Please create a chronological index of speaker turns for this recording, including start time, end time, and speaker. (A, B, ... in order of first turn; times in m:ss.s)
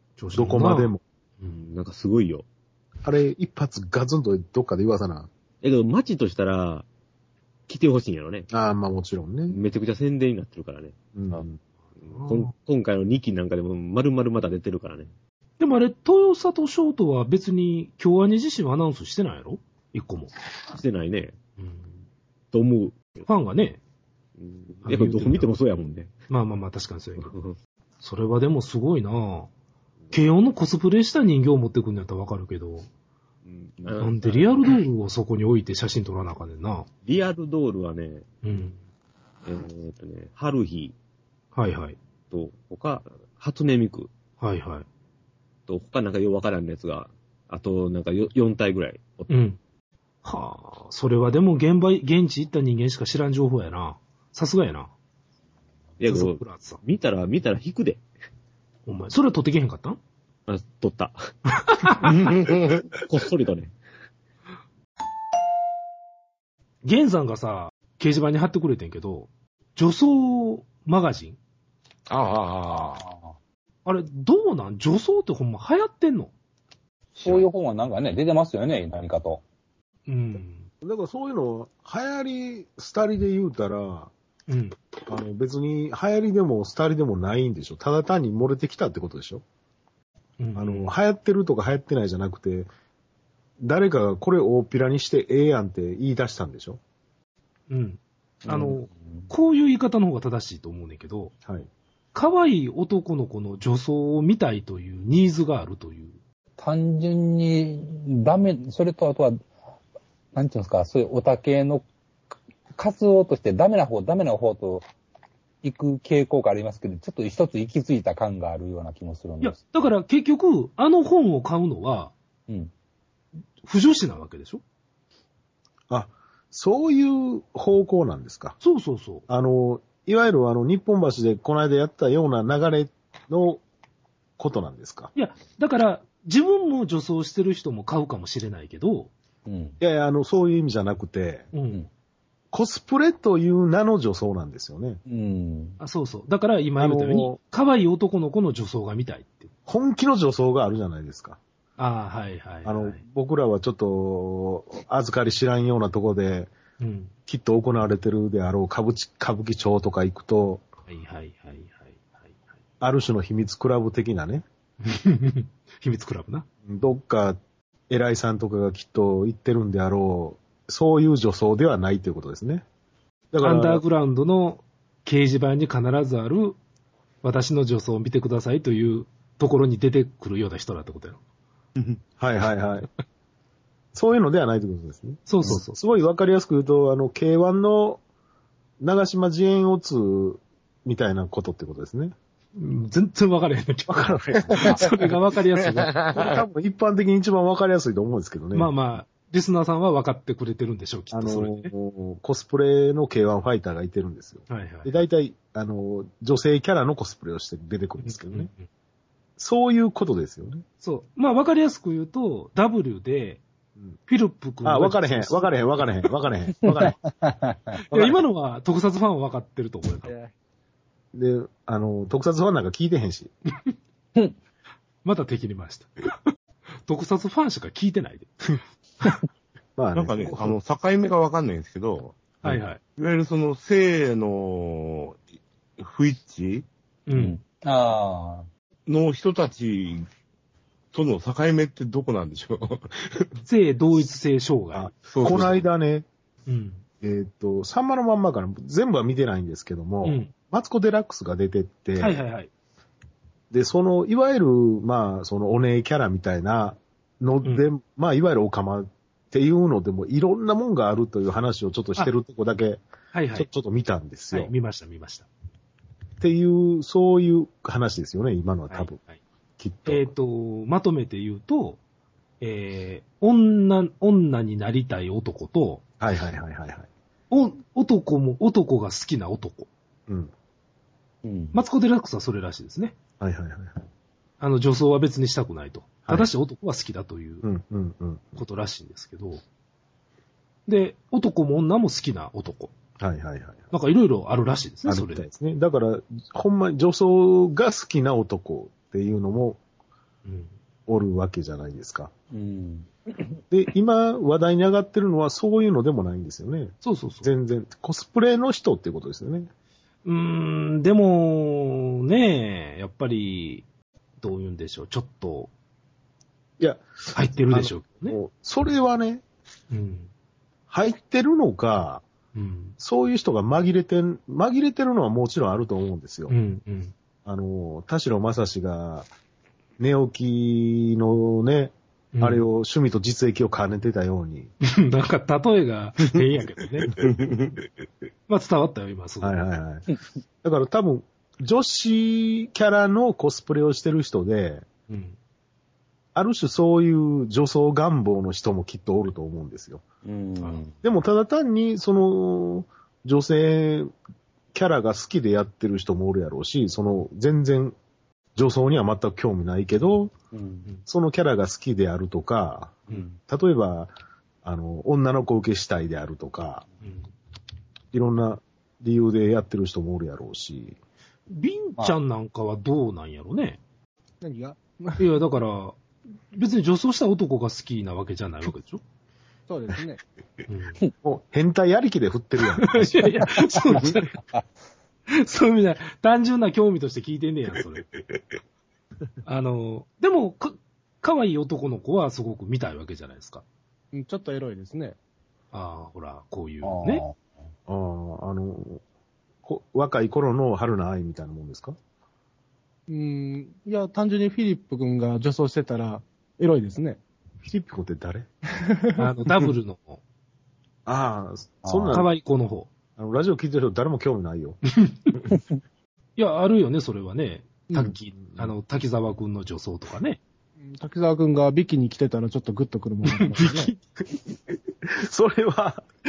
0:00.2-0:01.6 A
0:00.3-0:01.0 B
0:01.5-0:02.5 C
0:03.0-0:05.3 B
0:05.6-0:06.9 C
0:07.7-0:08.5 C
0:08.5-0:09.6 B
0:09.5-0:11.4 C
0:11.2-0:11.6 B
0:12.0-0:15.1 C
0:12.1-0:12.5 A
0:15.6-0:20.3 A
0:20.7-0:21.3 C
0:21.6-0:21.9 A
0:22.5-0:23.2 C
0:23.3-0:23.8 A
0:24.4-0:26.1 C
0:24.8-0:25.5 A
0:26.3-0:27.3 A
0:27.2-0:27.6 C
0:28.0-0:29.5 A
0:30.1-0:32.9 A
0:33.4-0:34.6 C
0:34.0-0:36.9 A
0:37.1-0:38.2 C
0:38.4-0:38.8 A
0:39.5-0:41.0 C
0:41.6-0:42.0 A
0:42.3-0:44.1 C
0:44.4-0:44.9 A
0:45.7-0:49.3 C
0:49.3-0:49.6 A
0:50.2-0:54.9 A
0:56.0-0:58.0 C
0:56.0-0:56.8 A
0:58.9-1:00.0 A
1:00.5-1:01.2 C
1:01.6-1:02.1 A
1:02.0-1:02.9 D
1:03.0-1:03.7 C
1:06.8-1:11.4 A
1:12.1-1:13.0 D
1:12.8-1:13.3 E
1:13.8-1:16.3 A
1:17.2-1:19.4 E
1:20.1-1:20.7 A
1:20.8-1:24.1 B
1:24.5-1:24.8 A
1:25.1-1:29.4 B
1:30.4-1:31.0 A
1:30.6-1:32.7 B
1:33.6-1:36.8 B
1:37.7-1:41.3 A
1:38.4-1:39.2 E
1:42.1-1:46.2 A
1:46.6-1:49.4 E
1:50.4-1:51.8 E
1:52.7-1:54.9 E
1:55.6-1:59.8 E
1:59.4-2:02.1 A
2:03.6-2:04.6 A
2:05.9-2:08.6 B
2:08.6-2:09.2 A
2:09.3-2:13.6 B
2:14.4-2:15.1 B
2:15.2-2:19.1 A
2:19.5-2:19.8 E
2:19.8-2:21.5 B
2:21.5-2:21.8 A
2:22.5-2:25.0 B
2:25.1-2:25.8 E
2:25.8-2:29.5 A
2:26.8-2:27.4 B
2:29.7-2:31.4 B
2:31.8-2:33.0 A
2:32.6-2:36.5 B
2:36.8-2:37.1 A
2:37.3-2:40.6 B
2:40.9-2:42.4 A
2:42.8-2:44.4 B
2:44.8-2:46.5 A
2:46.7-2:47.4 B
2:47.9-2:52.6 B
2:53.3-2:53.8 B
2:53.4-2:56.6 A
2:57.2-3:01.2 A
3:02.2-3:02.9 B
3:03.9-3:08.0 B
3:05.3-3:05.8 A
3:08.8-3:12.1 B
3:12.6-3:15.9 A
3:13.9-3:14.9 B
3:15.9-3:18.7 B
3:16.0-3:16.4 D
3:18.5-3:21.7 A
3:21.1-3:28.5 B
3:24.5-3:24.9 A
3:28.0-3:28.7 A
3:29.4-3:30.6 B
3:30.8-3:33.4 A
3:34.1-3:35.9 A
3:34.6-3:37.0 B
3:36.6-3:37.8 E
3:37.9-3:38.2 B
3:37.9-3:40.2 A
3:40.0-3:40.3 E
3:41.1-3:43.3 B
3:45.0-3:46.2 A
3:46.8-3:49.2 A
3:49.8-3:50.3 B
3:50.0-3:55.2 D
3:52.4-3:52.8 A
3:55.8-3:56.7 D
3:57.1-3:57.4 A
3:57.1-3:58.5 E
3:58.9-4:00.1 D
4:00.9-4:03.3 D
4:03.4-4:05.6 A
4:04.7-4:06.1 B
4:05.1-4:05.6 D
4:06.5-4:06.8 A
4:07.0-4:12.2 B
4:10.0-4:10.3 A
4:12.0-4:12.5 A
4:13.5-4:22.8 B
4:23.1-4:23.5 A
4:23.3-4:24.5 B
4:24.3-4:25.3 A
4:26.2-4:29.0 B
4:28.7-4:29.2 A
4:29.6-4:30.1 B
4:29.9-4:31.8 A
4:32.4-4:35.8 A
4:36.0-4:36.9 B
4:37.3-4:39.7 A
4:41.2-4:41.6 E
4:41.5-4:43.0 A
4:43.2-4:43.9 B
4:44.4-4:47.4 A
4:47.4-4:48.4 B
4:48.4-4:49.4 A
4:50.7-4:52.7 A
4:53.0-4:53.7 B
4:53.7-4:55.2 A
4:54.9-4:59.6 B
5:00.2-5:00.5 A
5:00.9-5:02.1 B
5:02.3-5:02.9 E
5:03.5-5:09.5 B
5:06.8-5:07.3 A
5:10.0-5:13.7 A
5:14.2-5:15.5 A
5:16.6-5:19.2 B
5:17.1-5:18.2 A
5:19.7-5:20.1 A
5:20.7-5:22.0 B
5:22.4-5:22.8 A
5:22.8-5:26.3 B
5:26.3-5:26.9 A
5:27.2-5:29.1 B
5:29.8-5:34.5 B
5:32.1-5:32.4 A
5:34.7-5:36.9 A
5:37.0-5:37.6 D
5:38.3-5:39.4 A
5:39.2-5:39.9 B
5:40.4-5:44.6 B
5:44.9-5:45.2 A
5:46.2-5:49.8 B
5:50.0-5:50.7 E
5:50.4-5:50.7 A
5:50.8-5:53.9 B
5:54.5-5:57.8 B
5:58.4-6:00.1 B
6:00.3-6:00.7 E
6:00.9-6:03.9 B
6:04.4-6:06.7 B
6:06.8-6:07.1 A
6:07.9-6:10.8 B
6:11.3-6:13.6 A
6:14.2-6:15.0 F
6:15.0-6:15.8 A
6:16.3-6:18.8 A
6:19.5-6:20.0 F
6:20.5-6:20.8 A
6:21.0-6:23.1 B
6:22.6-6:24.2 A
6:23.2-6:23.8 E
6:25.1-6:27.9 A
6:29.2-6:33.4 A
6:33.9-6:35.0 F
6:35.5-6:37.0 A
6:36.6-6:37.2 E
6:37.7-6:38.8 B
6:39.4-6:41.8 B
6:42.9-6:47.0 F
6:47.4-6:48.3 B
6:49.0-6:50.0 A
6:50.9-6:52.1 B
6:51.6-6:52.0 E
6:51.9-6:52.7 A
6:53.0-6:54.6 B
6:56.2-7:00.2 A
6:58.2-6:58.5 B
7:00.6-7:03.7 F
7:03.2-7:03.7 A
7:04.9-7:05.8 B